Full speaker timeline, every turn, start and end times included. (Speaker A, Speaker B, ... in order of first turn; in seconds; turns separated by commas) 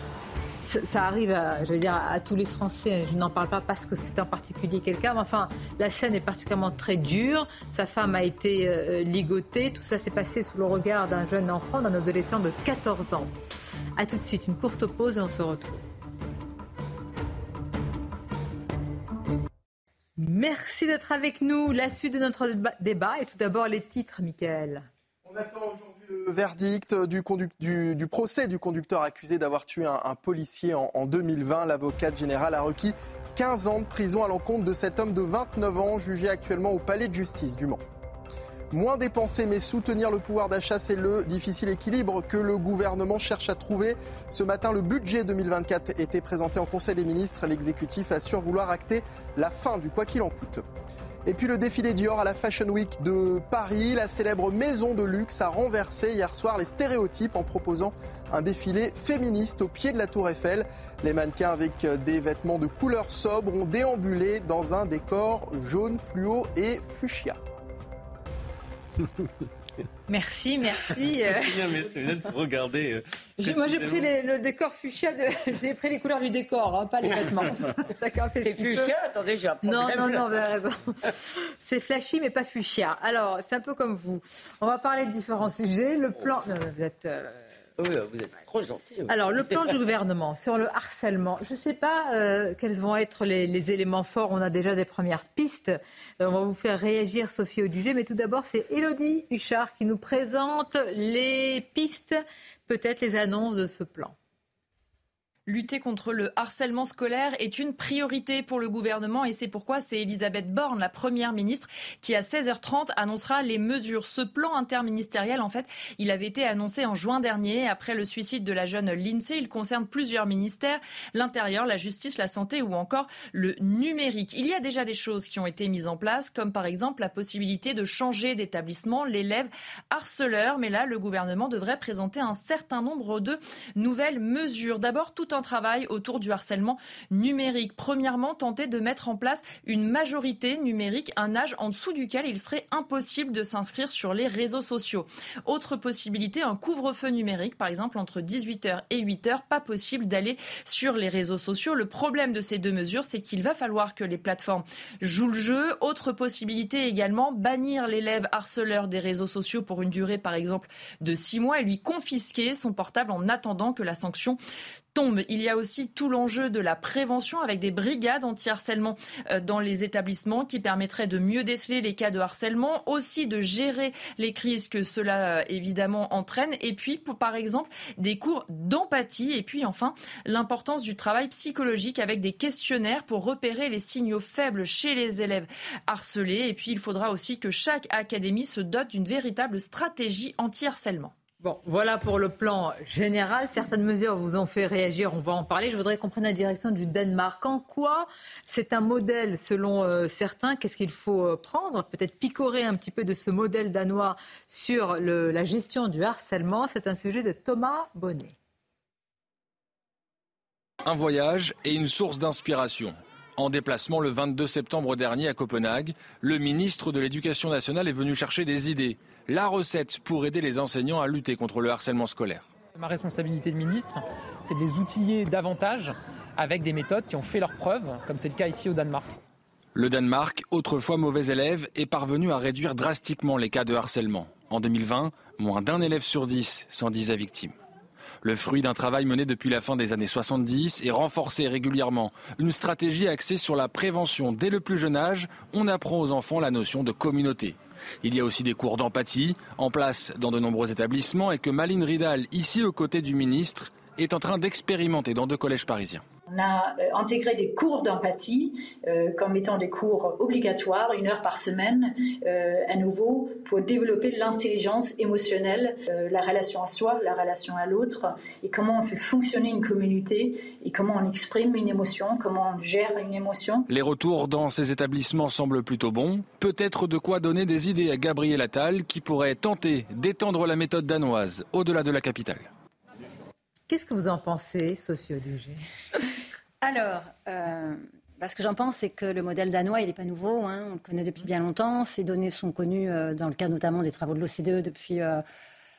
Speaker A: 0.6-13.3, Speaker A: 14.0-15.8, Speaker A: 20.2-24.9, Speaker B: 25.2-37.8, Speaker B: 38.7-50.6, Speaker B: 51.3-67.4, Speaker A: 70.1-71.6, Speaker C: 71.3-74.1, Speaker A: 73.4-78.9, Speaker D: 78.4-80.4, Speaker A: 79.6-87.5, Speaker D: 87.8-89.7, Speaker A: 89.1-104.1, Speaker E: 105.5-164.4, Speaker E: 164.9-191.1, Speaker A: 191.4-208.3, Speaker F: 210.8-222.5, Speaker G: 222.8-229.2, Speaker F: 229.8-237.6, Speaker F: 238.2-256.0, Speaker H: 256.3-273.7, Speaker F: 273.7-282.5, Speaker A: 283.7-285.6, Speaker I: 286.6-295.2